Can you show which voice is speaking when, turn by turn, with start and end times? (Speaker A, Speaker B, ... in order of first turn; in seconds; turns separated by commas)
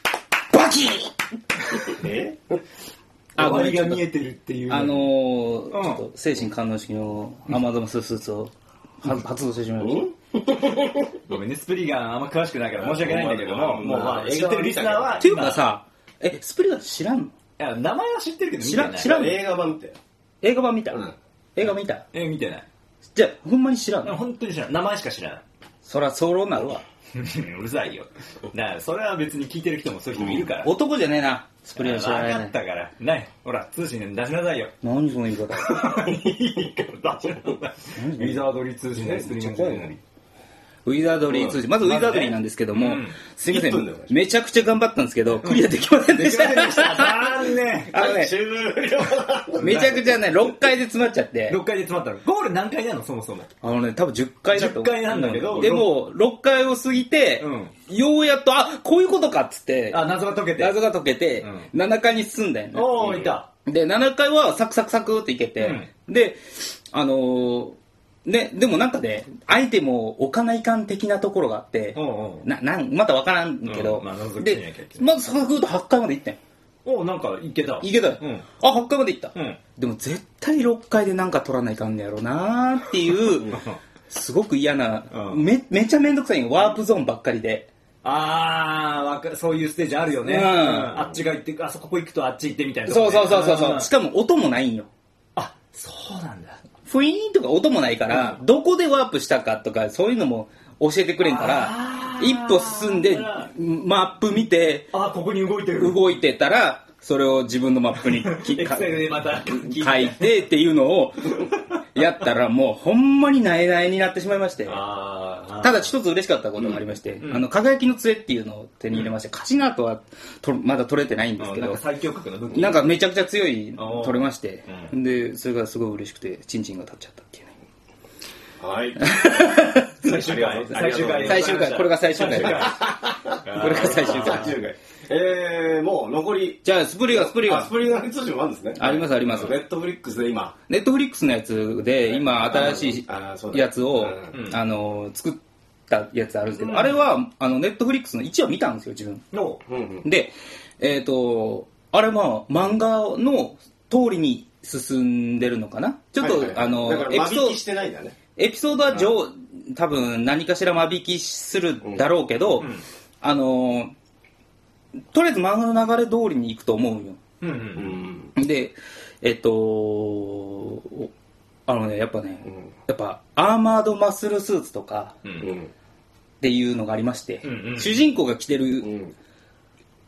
Speaker A: 0.5-1.1, Speaker B: 1.9-2.6, Speaker C: 3.4-5.1, Speaker A: 3.4-4.0, Speaker A: 4.7-10.1, Speaker C: 5.7-6.0, Speaker B: 9.8-11.2, Speaker C: 11.3-15.6, Speaker B: 12.8-15.3, Speaker A: 15.2-17.3, Speaker C: 17.6-19.2, Speaker A: 18.6-19.5, Speaker B: 18.9-20.0, Speaker A: 20.4-21.0, Speaker A: 21.6-22.1, Speaker C: 22.1-22.6, Speaker A: 23.1-24.2, Speaker C: 24.0-25.4, Speaker A: 25.8-26.8, Speaker C: 27.1-30.7, Speaker A: 30.6-32.5, Speaker C: 31.7-34.8, Speaker A: 34.8-36.0, Speaker C: 35.5-40.0, Speaker A: 38.0-39.9, Speaker A: 40.8-48.3, Speaker B: 41.2-41.6, Speaker C: 41.8-43.2, Speaker B: 43.4-44.2, Speaker C: 45.4-48.0, Speaker B: 47.9-50.0, Speaker C: 49.6-50.0, Speaker A: 49.6-51.6, Speaker C: 51.5-53.5, Speaker A: 53.6-76.4, Speaker C: 54.5-56.0, Speaker C: 57.4-57.8, Speaker C: 59.9-60.8, Speaker C: 61.4-61.7, Speaker C: 62.7-63.5, Speaker C: 65.6-65.9, Speaker C: 71.9-72.5, Speaker C: 73.6-75.1, Speaker C: 76.8-78.5, Speaker A: 77.8-87.7, Speaker C: 79.3-79.6, Speaker C: 83.5-83.8, Speaker C: 85.1-85.4, Speaker C: 88.0-93.9, Speaker A: 90.2-91.1, Speaker A: 92.9-94.9, Speaker C: 95.3-96.6, Speaker A: 96.9-105.0, Speaker C: 101.2-103.5, Speaker C: 104.9-106.0, Speaker A: 105.8-114.8, Speaker C: 108.0-110.4, Speaker C: 114.6-115.9, Speaker A: 115.6-121.8, Speaker C: 117.2-117.5, Speaker C: 121.4-123.0, Speaker A: 122.5-127.5, Speaker C: 123.8-124.9, Speaker B: 128.6-129.3, Speaker A: 129.0-129.9, Speaker C: 130.0-134.6, Speaker B: 130.0-131.7, Speaker A: 130.8-132.8, Speaker B: 132.2-140.6, Speaker A: 133.5-134.6, Speaker A: 136.6-137.8, Speaker A: 138.8-139.6, Speaker C: 139.3-139.5, Speaker A: 140.7-149.3, Speaker B: 142.0-144.3, Speaker C: 144.3-144.6, Speaker C: 146.5-147.0, Speaker C: 149.3-149.6, Speaker B: 149.6-150.1, Speaker A: 150.0-157.6, Speaker B: 156.2-158.2, Speaker A: 158.4-162.7, Speaker C: 162.6-162.8, Speaker A: 163.2-163.9, Speaker A: 165.1-167.2, Speaker C: 167.4-168.0, Speaker B: 167.7-168.3, Speaker A: 168.3-171.1, Speaker A: 171.7-175.2, Speaker B: 172.4-172.7, Speaker C: 175.2-175.5, Speaker B: 175.4-175.7, Speaker A: 176.4-179.0, Speaker C: 177.4-178.0, Speaker B: 178.8-179.1